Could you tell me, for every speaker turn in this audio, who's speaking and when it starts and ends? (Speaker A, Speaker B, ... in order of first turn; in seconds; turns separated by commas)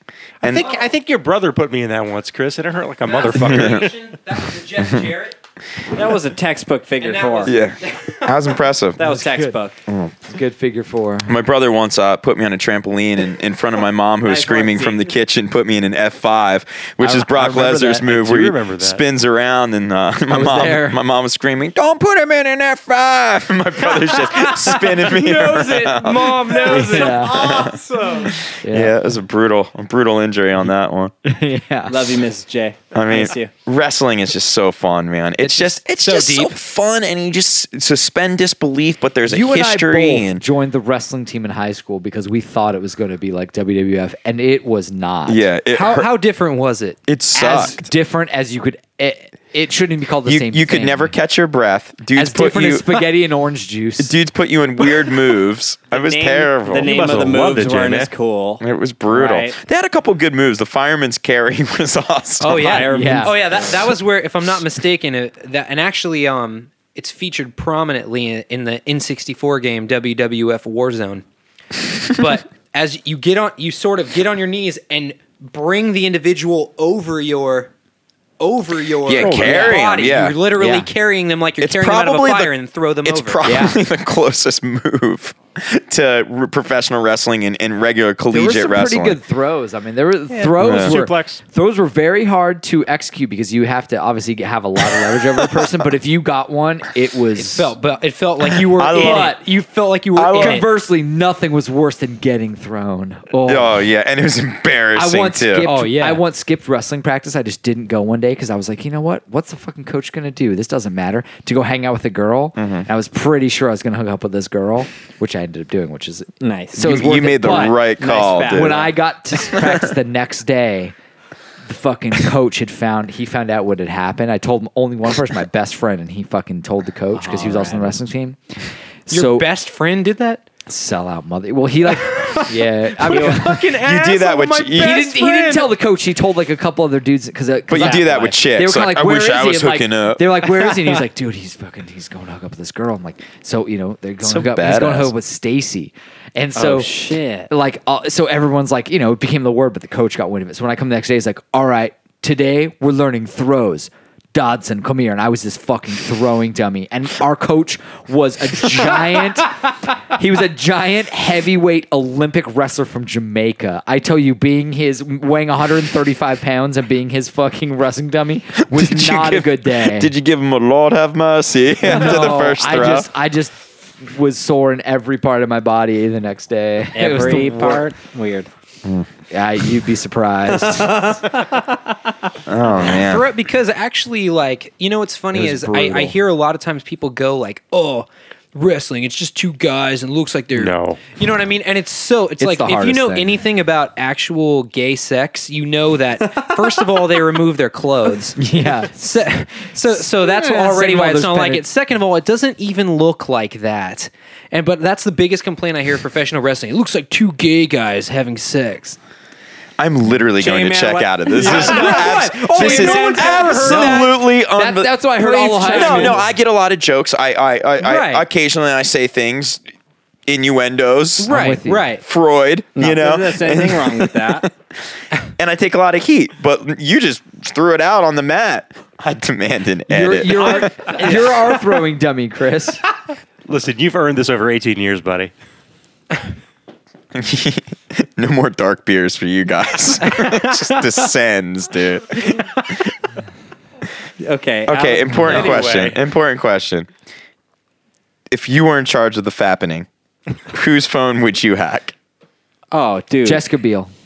Speaker A: 0.4-0.7, Speaker B: 0.4-3.9, Speaker C: 3.0-5.4, Speaker A: 3.4-3.9, Speaker D: 5.9-7.6, Speaker C: 7.0-8.5, Speaker A: 7.4-9.0, Speaker D: 9.0-9.8, Speaker E: 9.0-9.6, Speaker A: 9.9-10.1, Speaker E: 10.2-11.3, Speaker A: 11.2-31.1, Speaker D: 14.2-15.1, Speaker E: 17.0-18.0, Speaker B: 17.6-19.0, Speaker E: 20.3-21.0, Speaker C: 24.2-28.3, Speaker E: 26.6-27.6, Speaker D: 26.9-27.9, Speaker E: 28.6-29.0, Speaker E: 31.2-32.2, Speaker D: 31.9-33.5, Speaker A: 32.9-40.4, Speaker C: 35.4-36.5, Speaker E: 39.2-45.5, Speaker A: 45.3-46.1, Speaker C: 45.7-47.0, Speaker A: 47.1-47.9, Speaker E: 47.3-51.1, Speaker A: 50.2-53.0, Speaker E: 52.1-54.1, Speaker A: 54.0-57.1, Speaker D: 55.9-59.5, Speaker B: 56.8-58.1, Speaker A: 58.6-62.8, Speaker C: 62.4-71.2, Speaker D: 62.5-63.9, Speaker E: 62.9-63.4, Speaker C: 72.0-77.7, Speaker C: 78.4-83.4, Speaker A: 79.0-80.4, Speaker B: 79.2-79.7, Speaker E: 80.6-80.9, Speaker A: 81.6-82.5, Speaker A: 83.0-89.2, Speaker E: 83.4-83.8, Speaker E: 88.3-97.7, Speaker B: 90.3-91.4, Speaker A: 90.6-91.0, Speaker C: 97.3-100.7, Speaker A: 98.5-99.3, Speaker E: 98.9-99.4, Speaker A: 100.1-100.6, Speaker E: 100.3-103.8, Speaker A: 103.5-105.7, Speaker E: 104.9-117.8, Speaker C: 105.6-106.2, Speaker A: 112.6-112.9, Speaker D: 116.4-116.8, Speaker A: 116.8-118.8, Speaker D: 118.0-118.9, Speaker E: 118.5-120.9, Speaker E: 121.6-129.5, Speaker D: 127.1-128.0, Speaker C: 129.1-130.4, Speaker E: 130.7-133.6, Speaker C: 131.9-135.7, Speaker A: 133.3-135.0, Speaker E: 134.8-146.9, Speaker A: 137.7-140.5, Speaker A: 144.2-145.1, Speaker D: 146.6-147.5, Speaker E: 147.5-170.1, Speaker A: 168.6-173.1, Speaker E: 171.8-177.9, Speaker D: 176.9-178.5, Speaker E: 179.3-181.2, Speaker D: 180.6-181.8, Speaker A: 182.4-183.3, Speaker C: 182.8-209.0, Speaker E: 185.3-186.1, Speaker B: 190.5-191.0, Speaker E: 192.4-193.3, Speaker E: 198.4-199.0, Speaker E: 199.9-201.6, Speaker A: 209.8-215.0, Speaker D: 210.4-212.8, Speaker C: 211.3-214.1, Speaker E: 212.6-216.2, Speaker C: 215.4-216.1, Speaker A: 215.6-219.6, Speaker C: 217.8-218.2, Speaker A: 220.3-221.3, Speaker C: 221.2-222.0, Speaker E: 221.3-221.9, Speaker A: 222.0-224.5, Speaker D: 222.8-224.5, Speaker A: 225.4-231.2, Speaker E: 229.9-232.8, Speaker C: 230.9-231.3, Speaker B: 233.5-235.3, Speaker A: 237.1-242.9, Speaker C: 240.2-240.6, Speaker D: 244.2-245.7, Speaker A: 244.7-246.9, Speaker B: 245.2-246.0, Speaker A: 248.3-249.9, Speaker A: 250.5-251.9, Speaker D: 252.7-253.4, Speaker E: 253.2-253.9